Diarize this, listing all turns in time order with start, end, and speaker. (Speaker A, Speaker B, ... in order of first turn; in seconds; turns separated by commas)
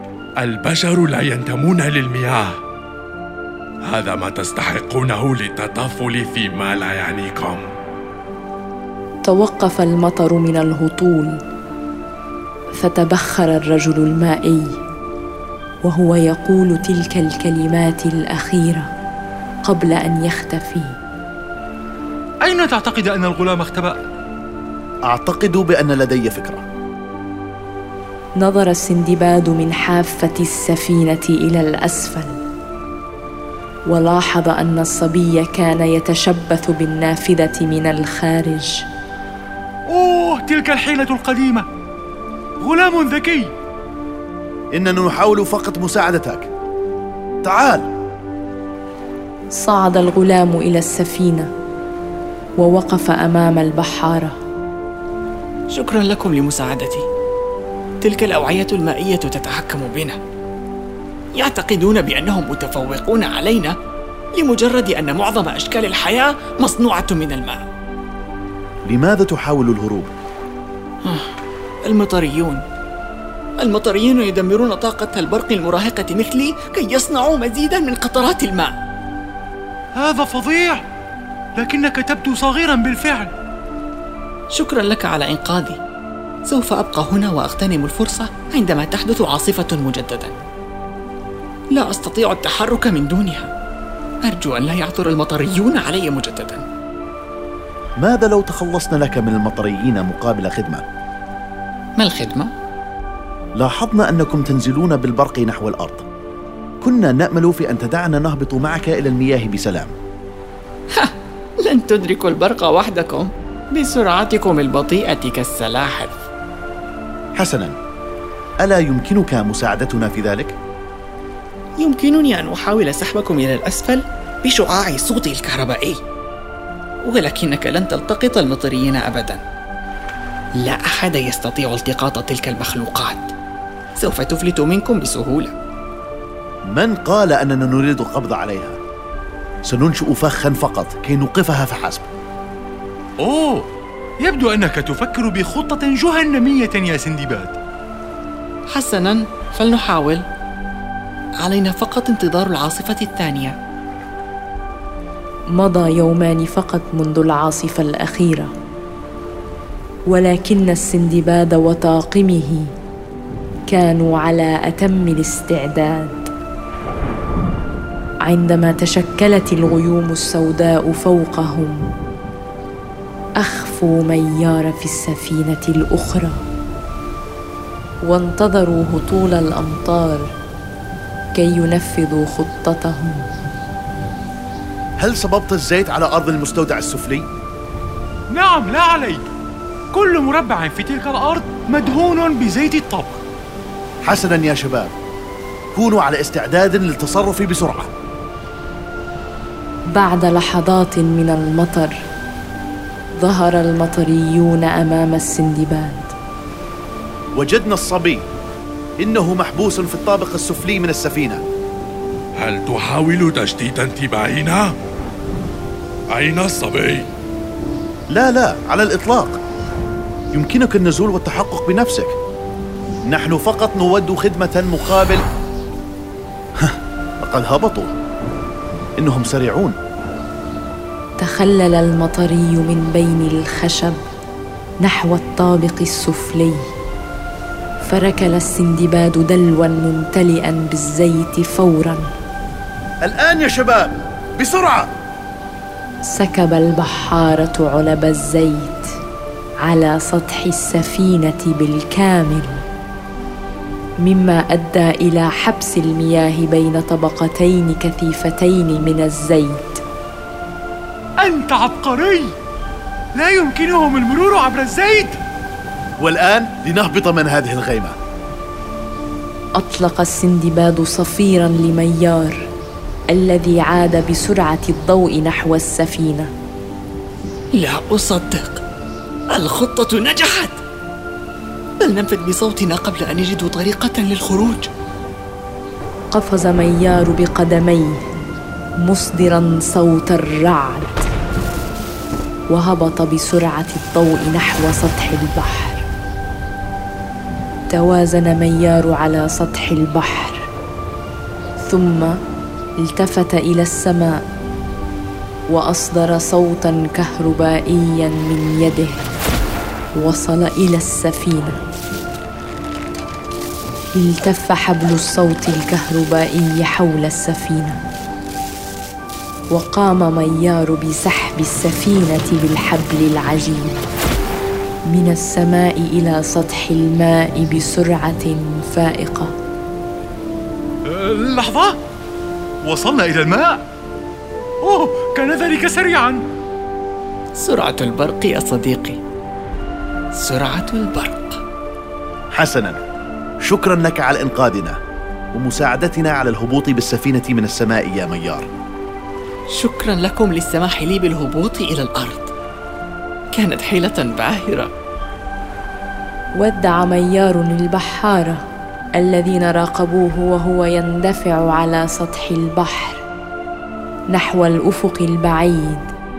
Speaker A: 0.4-2.5, Speaker A: 3.9-7.7, Speaker B: 9.2-11.3, Speaker B: 12.8-14.7, Speaker B: 15.8-18.9, Speaker B: 19.6-20.9, Speaker C: 22.4-24.0, Speaker D: 25.1-26.6, Speaker B: 28.4-32.3, Speaker B: 33.9-38.8, Speaker C: 39.9-41.7, Speaker C: 42.6-43.5, Speaker D: 44.7-46.5, Speaker D: 47.4-47.9, Speaker B: 49.5-51.5, Speaker B: 52.6-54.4, Speaker E: 55.7-57.1, Speaker E: 58.0-60.2, Speaker E: 61.3-63.7, Speaker E: 64.3-67.7, Speaker D: 68.8-70.1, Speaker E: 71.8-72.6, Speaker E: 73.6-78.8, Speaker C: 80.0-80.8, Speaker C: 81.6-83.3, Speaker E: 84.5-85.8, Speaker E: 86.5-90.4, Speaker E: 91.7-93.5, Speaker E: 94.2-96.6, Speaker D: 98.0-100.8, Speaker E: 102.0-102.5, Speaker D: 103.5-106.0, Speaker D: 106.8-109.9, Speaker E: 110.9-116.1, Speaker D: 117.4-117.7, Speaker D: 118.6-120.5, Speaker E: 121.8-126.0, Speaker E: 127.0-129.4, Speaker E: 130.6-133.3, Speaker E: 134.0-135.5, Speaker D: 136.7-138.8, Speaker D: 139.7-142.1, Speaker C: 143.2-143.7, Speaker C: 144.2-147.5, Speaker E: 148.7-150.2, Speaker E: 151.4-153.5, Speaker B: 155.5-158.5, Speaker B: 160.1-162.7, Speaker B: 163.7-166.2, Speaker B: 168.2-171.8, Speaker B: 173.4-176.4, Speaker B: 178.0-180.3, Speaker B: 181.3-183.2, Speaker D: 185.0-187.2, Speaker C: 188.3-189.2, Speaker C: 189.9-193.2, Speaker D: 194.0-194.9, Speaker D: 195.7-197.9, Speaker B: 199.9-201.9, Speaker B: 203.2-206.1, Speaker D: 207.3-208.2, Speaker D: 209.0-211.4, Speaker A: 212.4-214.7, Speaker A: 216.1-217.1, Speaker D: 218.1-219.4, Speaker D: 220.3-222.1, Speaker D: 223.1-225.2, Speaker D: 226.6-227.9, Speaker D: 229.0-229.8, Speaker B: 231.2-234.0, Speaker B: 234.8-236.6, Speaker B: 237.8-242.1, Speaker D: 243.0-244.9, Speaker B: 246.0-248.9, Speaker B: 249.6-252.5, Speaker B: 254.0-259.8, Speaker C: 261.2-262.3, Speaker C: 263.2-265.2, Speaker D: 266.0-267.9, Speaker B: 269.6-272.4, Speaker B: 273.1-276.3, Speaker E: 277.5-278.6, Speaker E: 279.3-280.6, Speaker E: 281.8-284.7, Speaker B: 286.1-288.0, Speaker B: 288.8-290.9, Speaker B: 292.5-295.8, Speaker B: 297.7-300.4, Speaker B: 301.6-302.1, Speaker B: 302.8-304.1, Speaker B: 305.5-309.2, Speaker B: 310.0-311.6, Speaker B: 313.9-317.8, Speaker B: 319.5-323.8, Speaker B: 324.9-329.3, Speaker C: 330.9-331.8, Speaker C: 332.6-333.6, Speaker C: 334.6-336.2, Speaker E: 337.4-339.0, Speaker E: 340.1-341.4, Speaker D: 342.3-342.8, Speaker D: 343.4-344.8, Speaker D: 345.3-348.5, Speaker E: 349.5-352.3, Speaker E: 353.3-354.7, Speaker B: 356.4-358.4, Speaker B: 359.0-363.0, Speaker B: 364.1-365.9